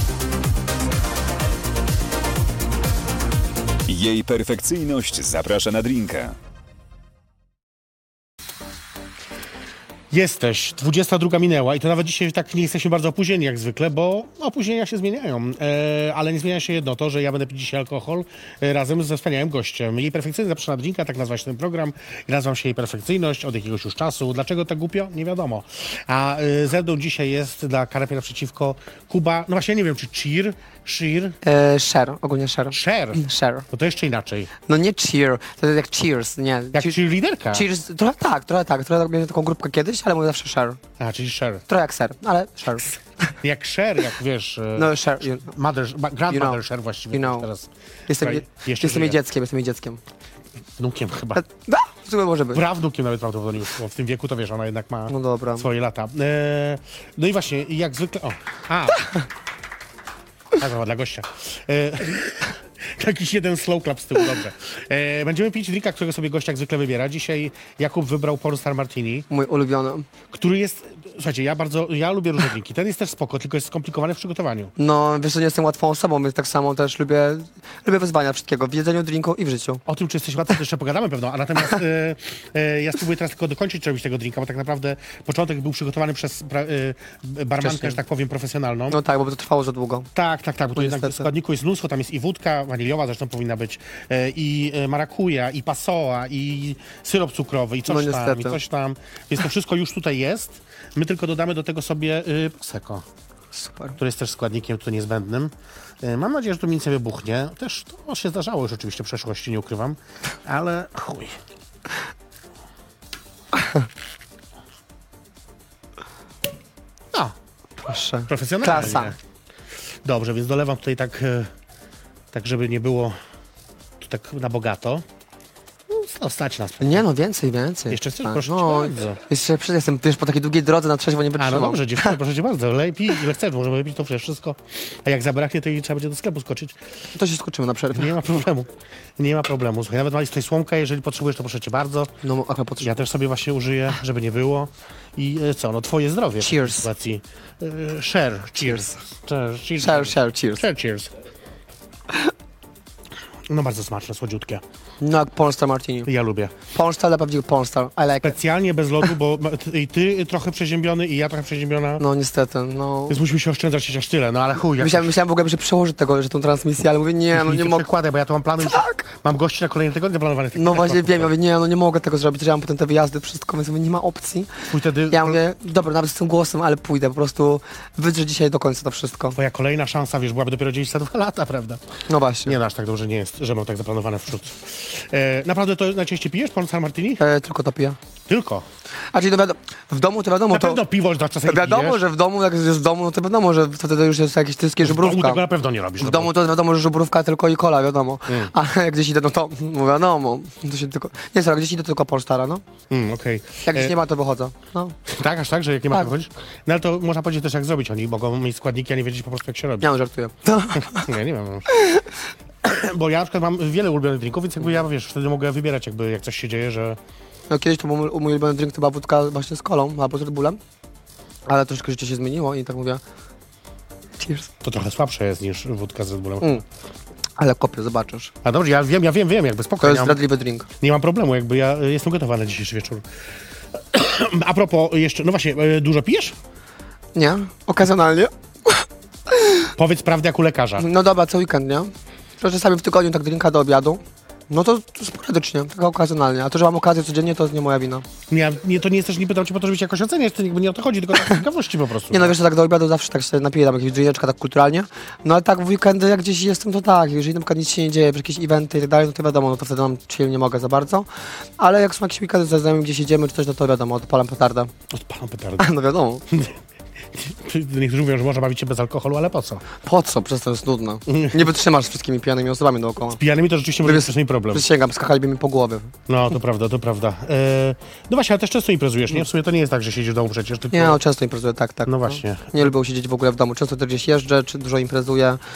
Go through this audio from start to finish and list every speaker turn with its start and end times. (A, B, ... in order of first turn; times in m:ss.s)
0:03.8-0:06.4 A
0:10.1-0:31.4 B
0:31.4-0:33.6 C
0:32.7-0:34.5 B
0:34.7-0:37.0 C
0:36.7-0:37.6 B
0:37.5-0:40.8 C
0:41.0-0:41.6 B
0:41.7-0:43.0 C
0:43.4-0:49.2 B
0:44.8-0:45.5 C
0:46.3-0:46.6 C
0:47.1-0:47.5 C
0:48.1-0:50.0 C
0:50.8-0:51.4 B
0:51.4-0:52.6 C
0:52.5-0:59.1 B
0:55.1-0:55.7 C
1:00.6-1:09.3 B
1:09.3-1:10.1 C
1:10.3-1:14.7 B
1:14.8-1:19.8 C
1:19.8-1:29.0 B
1:27.6-1:28.0 C
1:28.9-1:30.1 C
1:30.1-1:43.0 B
1:30.8-1:31.3 C
1:37.9-1:38.6 C
1:43.5-1:44.0 C
1:44.0-1:51.4 B
1:57.8-1:59.1 C
1:58.3-1:59.2 B
2:00.0-2:01.5 B
2:02.3-2:03.2 B
2:04.0-2:05.0 B
2:05.9-2:07.0 B
2:06.8-2:12.2 C
2:07.9-2:09.2 B
2:11.4-2:16.8 B
2:17.1-2:18.1 C
2:17.9-2:22.1 B
2:22.2-2:22.9 C
2:22.8-2:31.1 B
2:26.4-2:26.9 C
2:28.6-2:29.0 C
2:29.8-2:30.6 C
2:33.5-2:34.6 B
2:35.0-2:36.1 C
2:36.0-2:36.5 B
2:36.7-2:38.4 C
2:38.2-2:42.0 B
2:42.0-2:43.2 C
2:43.1-2:45.1 B
2:44.8-2:47.8 C
2:47.3-2:51.3 B
2:48.6-2:49.0 C
2:50.5-2:59.4 C
2:54.7-2:55.4 B
2:59.3-3:01.8 B
3:02.1-3:02.5 C
3:02.4-3:07.2 B
3:07.2-3:08.0 C
3:08.3-3:08.6 B
3:09.1-3:10.8 C
3:10.5-3:12.0 B
3:11.4-3:15.4 C
3:14.8-3:16.3 B
3:16.0-3:22.6 C
3:22.9-3:23.9 B
3:23.6-3:25.0 C
3:25.0-3:29.9 B
3:29.8-3:31.1 C
3:30.7-3:31.7 B
3:31.7-3:32.0 C
3:32.6-3:37.0 B
3:37.5-3:40.6 C
3:41.5-3:43.0 C
3:44.2-3:44.5 C
3:44.6-3:46.6 B
3:47.4-3:48.3 C
3:48.4-3:50.2 B
3:49.8-3:50.7 C
3:50.8-3:53.0 B
3:53.9-3:56.4 B
3:57.1-3:59.7 C
3:59.8-4:00.8 B
4:00.8-4:08.0 C
4:08.3-4:12.3 B
4:12.1-4:21.1 C
4:21.6-4:24.7 C
4:24.9-4:25.7 B
4:25.6-4:26.2 C
4:26.3-4:26.6 B
4:27.1-4:29.6 B
4:29.8-4:33.2 C
4:31.1-4:31.5 B
4:33.1-4:34.6 B
4:33.8-4:35.9 C
4:36.1-4:41.0 B
4:40.7-4:45.4 C
4:41.8-4:42.7 B